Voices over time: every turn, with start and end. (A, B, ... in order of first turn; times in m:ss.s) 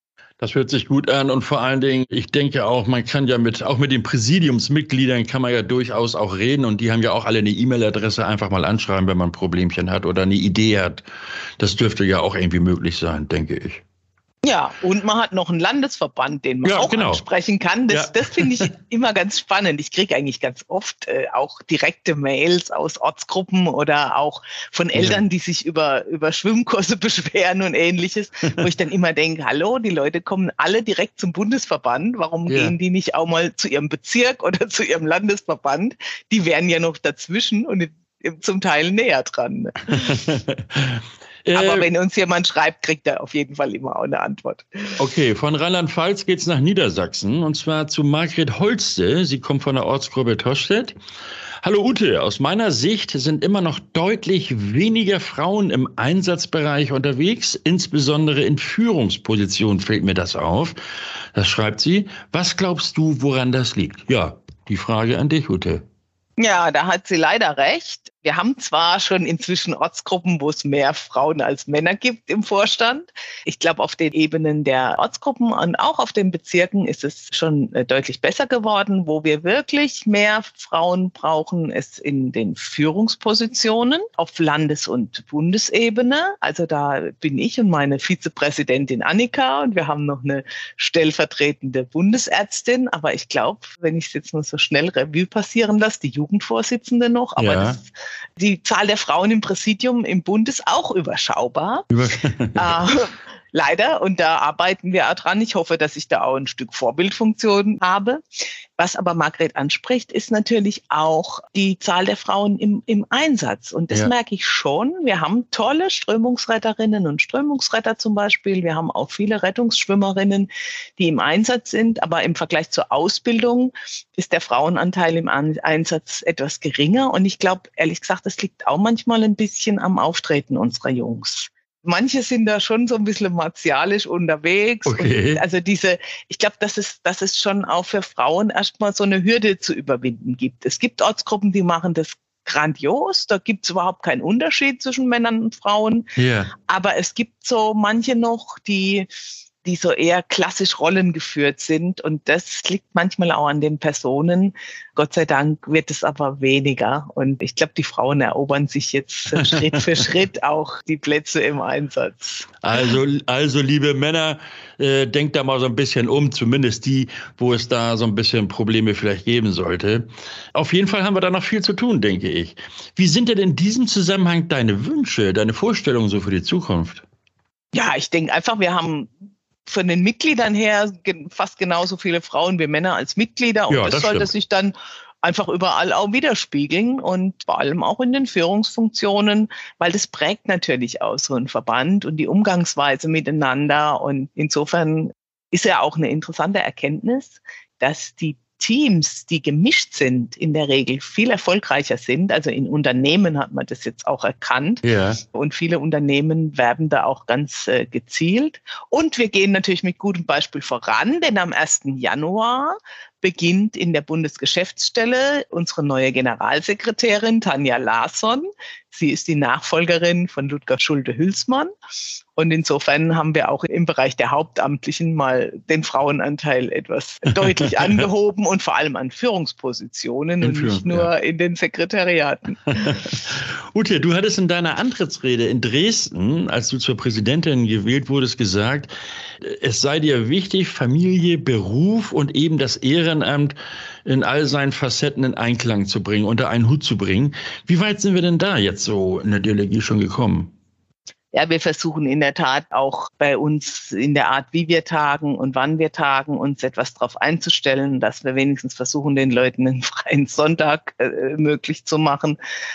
0:00.4-0:11.0 A
0:11.6-0:13.8 A
0:14.4-0:40.2 B
0:16.6-0:17.2 A
0:17.9-0:18.7 A
0:25.0-0:25.2 A
0:32.5-0:32.7 A
0:39.9-0:41.9 A
0:41.5-0:45.0 B
0:45.0-0:51.0 A
0:51.6-1:00.8 A
1:01.3-1:05.8 A
1:06.4-1:41.9 B
1:37.4-1:37.8 A
1:41.9-1:42.8 A
1:42.6-1:48.2 B
1:48.8-2:26.1 B
2:14.9-2:15.4 A
2:26.2-2:26.5 A
2:26.7-2:29.1 B
2:29.6-2:43.0 B
2:39.3-2:39.8 A
2:42.6-2:57.0 A
2:57.7-2:59.1 B
2:59.7-3:41.7 B
3:03.7-3:04.3 A
3:24.8-3:25.2 A
3:42.4-3:53.0 B
3:47.6-3:48.0 A
3:50.4-3:51.1 A
3:52.7-4:10.5 A
4:11.3-4:22.4 B